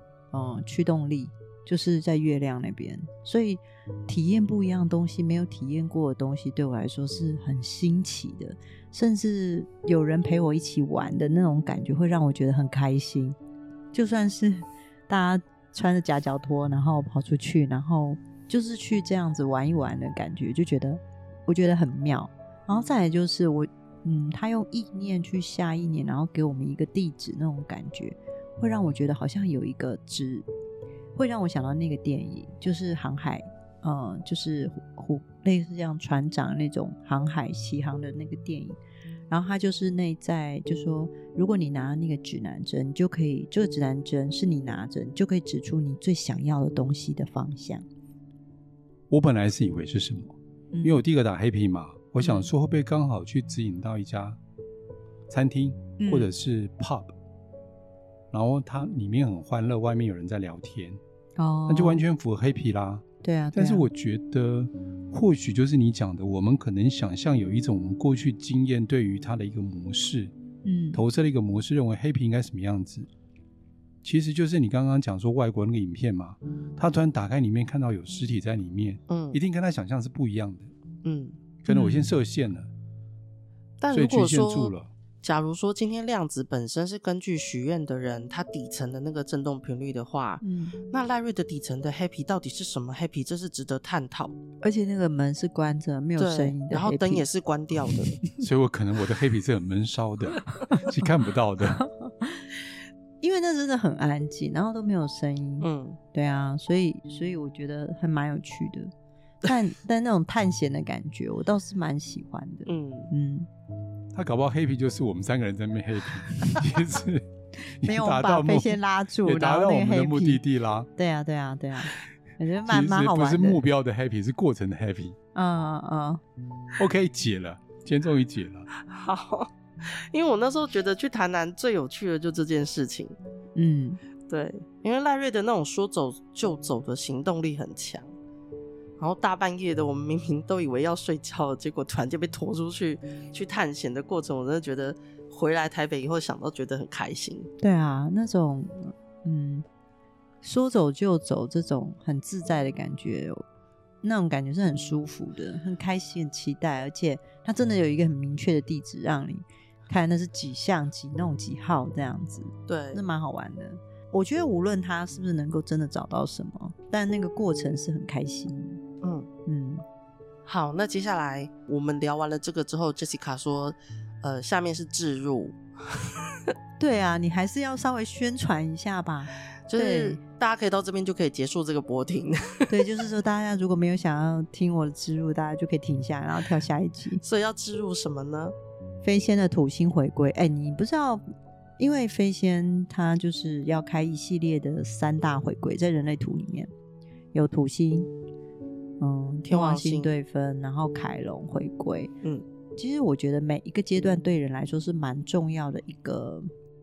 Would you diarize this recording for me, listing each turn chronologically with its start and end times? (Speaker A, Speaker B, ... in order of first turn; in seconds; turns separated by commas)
Speaker A: 0.3-13.3, Speaker A: 13.9-30.4, Speaker A: 31.1-38.8, Speaker A: 39.3-47.8, Speaker B: 49.1-54.4, Speaker A: 50.7-51.0, Speaker A: 52.2-52.5, Speaker B: 55.3-57.1, Speaker A: 56.0-56.3, Speaker B: 58.3-61.0, Speaker A: 61.4-62.0, Speaker B: 61.7-70.3, Speaker A: 63.2-63.9, Speaker A: 70.6-71.0, Speaker B: 70.9-73.1, Speaker B: 74.0-80.7, Speaker C: 79.1-79.4, Speaker C: 81.0-81.4, Speaker B: 81.6-82.7, Speaker A: 81.7-82.1, Speaker C: 83.8-94.4, Speaker B: 83.9-84.9, Speaker A: 90.4-90.8, Speaker A: 94.6-97.2, Speaker C: 96.2-98.2, Speaker B: 98.4-101.8, Speaker A: 101.8-102.5, Speaker A: 103.2-108.9, Speaker C: 105.6-106.0, Speaker A: 109.4-113.5, Speaker C: 112.7-113.1, Speaker B: 114.1-117.3, Speaker B: 117.8-120.9, Speaker A: 117.8-120.4, Speaker A: 121.0-123.6, Speaker B: 122.7-125.2, Speaker A: 125.3-126.2, Speaker B: 126.8-128.7, Speaker C: 128.8-133.2, Speaker A: 133.6-134.0, Speaker C: 134.3-138.1, Speaker C: 139.0-147.5, Speaker A: 147.6-149.6, Speaker A: 150.4-153.4, Speaker A: 154.0-168.8, Speaker C: 162.7-163.0, Speaker C: 169.0-169.3, Speaker A: 169.4-169.8, Speaker C: 170.4-176.1, Speaker A: 176.8-180.2, Speaker C: 179.7-182.8, Speaker A: 182.7-187.2, Speaker C: 187.2-188.5, Speaker A: 189.0-191.2, Speaker A: 191.8-196.7, Speaker A: 197.3-198.1, Speaker A: 199.0-202.1, Speaker C: 199.5-200.1, Speaker A: 202.8-206.5